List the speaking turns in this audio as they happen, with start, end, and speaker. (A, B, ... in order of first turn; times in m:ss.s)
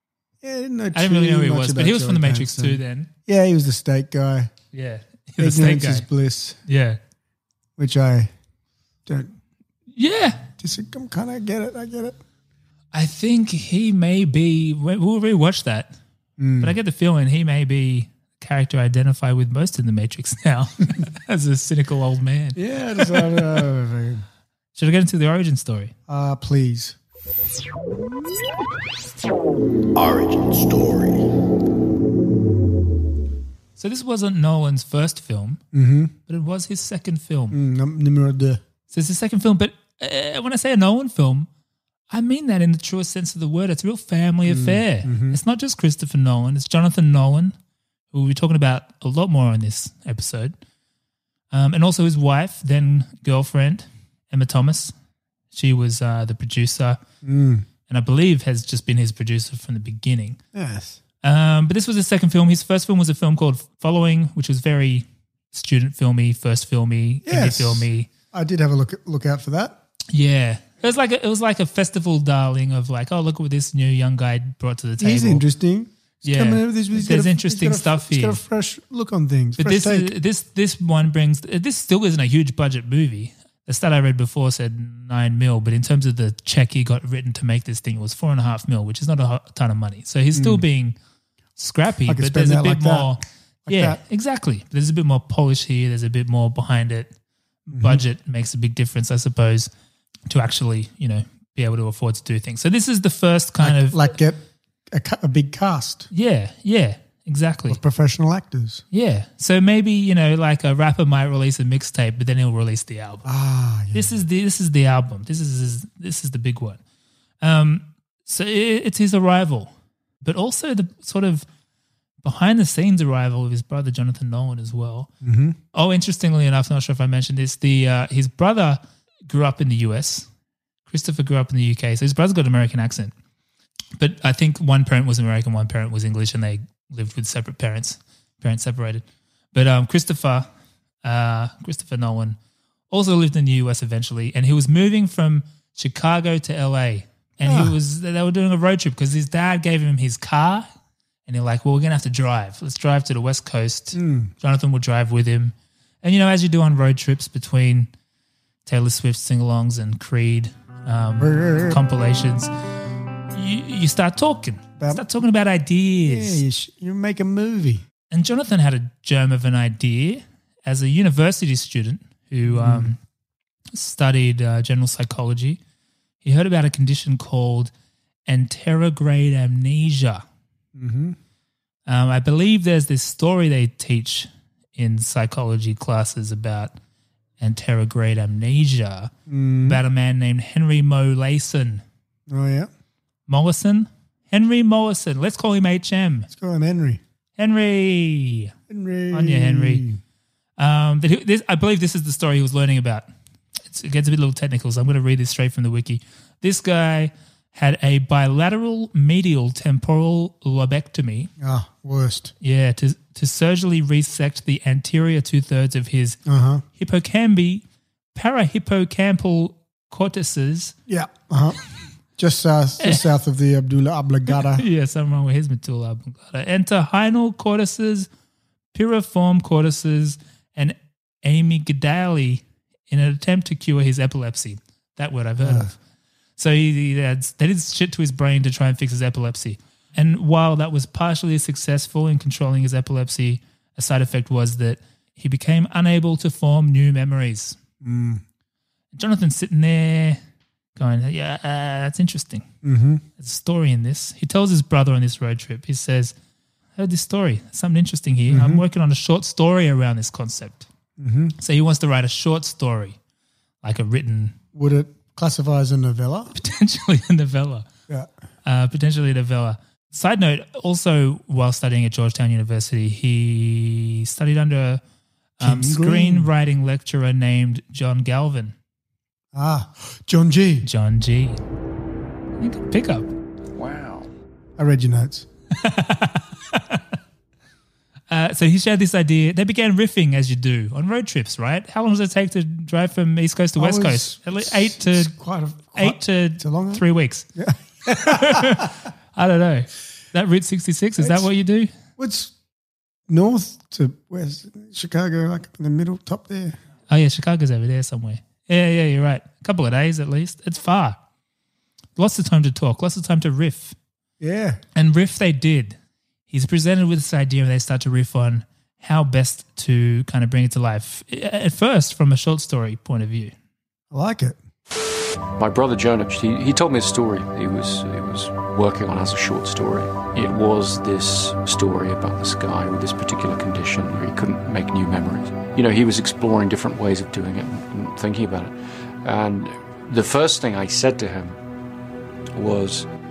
0:00.4-0:04.5 A
0:00.9-0:03.1 B
0:04.7-0:06.1 B
0:05.4-0:06.6 A
0:06.7-0:07.0 B
0:07.8-0:08.3 A
0:09.1-0:09.4 A
0:10.0-0:10.5 B
0:10.6-0:12.2 A
0:12.9-0:15.9 B
0:16.4-0:16.8 A
0:16.6-0:23.6 B
0:22.6-0:24.2 A
0:24.8-0:25.9 B
0:26.1-0:27.0 A
0:30.0-0:30.9 A
0:33.8-0:35.6 B
0:35.7-0:36.1 A
0:36.3-0:37.6 B
0:37.5-0:38.6 A
0:38.9-0:41.5 B
0:42.1-0:47.6 B
0:44.5-0:45.4 A
0:48.1-0:50.6 B
0:51.5-0:54.9 B
0:55.5-0:57.0 B
0:57.2-0:57.7 A
0:57.9-1:00.4 B
1:00.5-1:01.0 A
1:01.2-1:08.1 B
1:07.2-1:09.8 A
1:10.1-1:15.4 B
1:15.0-1:20.1 A
1:16.2-1:18.4 B
1:19.6-1:31.0 B
1:30.3-1:30.6 A
1:31.6-1:37.1 B
1:32.1-1:33.1 A
1:33.7-1:34.0 A
1:37.7-1:39.7 B
1:37.7-1:38.0 A
1:40.3-1:44.0 B
1:43.6-1:46.1 A
1:46.1-1:47.8 B
1:47.7-1:48.8 A
1:48.9-1:53.3 B
1:53.2-1:54.2 A
1:53.9-1:56.8 B
1:57.4-1:59.7 B
2:00.2-2:01.4 B
2:02.2-2:05.1 B
2:05.2-2:05.6 A
2:05.7-2:10.3 B
2:10.9-2:13.1 B
2:14.0-2:20.5 B
2:21.0-2:22.4 B
2:22.9-2:30.7 B
2:27.4-2:27.8 A
2:31.3-2:37.9 B
2:33.9-2:34.3 A
2:38.7-2:42.5 B
2:41.2-2:41.8 A
2:43.3-2:46.4 B
2:44.8-2:45.0 A
2:46.0-2:47.8 A
2:48.1-2:53.0 B
2:52.5-2:52.9 A
2:53.7-2:55.6 B
2:56.2-2:57.7 B
2:58.3-3:00.2 B
3:00.8-3:01.2 A
3:01.9-3:06.8 B
3:07.4-3:09.1 B
3:09.3-3:09.8 A
3:09.6-3:11.8 B
3:12.3-3:12.7 A
3:13.3-3:16.3 B
3:16.3-3:17.0 A
3:17.4-3:18.5 B
3:18.7-3:20.0 A
3:19.1-3:19.8 B
3:20.6-3:23.0 B
3:23.7-3:31.3 B
3:31.4-3:32.3 A
3:32.4-3:36.2 B
3:36.3-3:36.6 A
3:36.8-3:37.6 B
3:38.2-3:40.7 B
3:40.9-3:41.6 A
3:42.2-3:44.6 A
3:44.3-3:48.1 B
3:48.7-3:55.8 B
3:55.4-3:55.7 A
3:56.4-4:07.6 B
4:07.8-4:08.2 A
4:08.9-4:10.2 B
4:10.8-4:12.5 B
4:12.6-4:13.0 A
4:13.2-4:16.1 B
4:16.8-4:20.7 B
4:18.3-4:18.6 A
4:21.0-4:21.4 A
4:21.4-4:23.0 B
4:23.6-4:24.4 B
4:24.5-4:26.3 A
4:26.3-4:27.7 B
4:28.4-4:34.8 B
4:35.4-4:38.6 B
4:35.4-4:36.3 A
4:39.3-4:40.7 A
4:40.6-4:41.4 B
4:42.4-4:43.1 B
4:44.6-4:45.3 A
4:45.6-4:46.8 B
4:48.1-4:55.1 B
4:53.6-4:58.7 A
4:55.8-4:57.3 B
4:57.9-5:01.7 B
5:01.0-5:01.3 A
5:02.0-5:02.3 A
5:03.1-5:06.6 A
5:06.9-5:11.0 B
5:12.0-5:13.8 B
5:14.2-5:14.6 A
5:14.8-5:15.8 B
5:16.3-5:23.3 B
5:23.9-5:24.4 A
5:25.4-5:41.4 C
5:42.3-5:42.9 C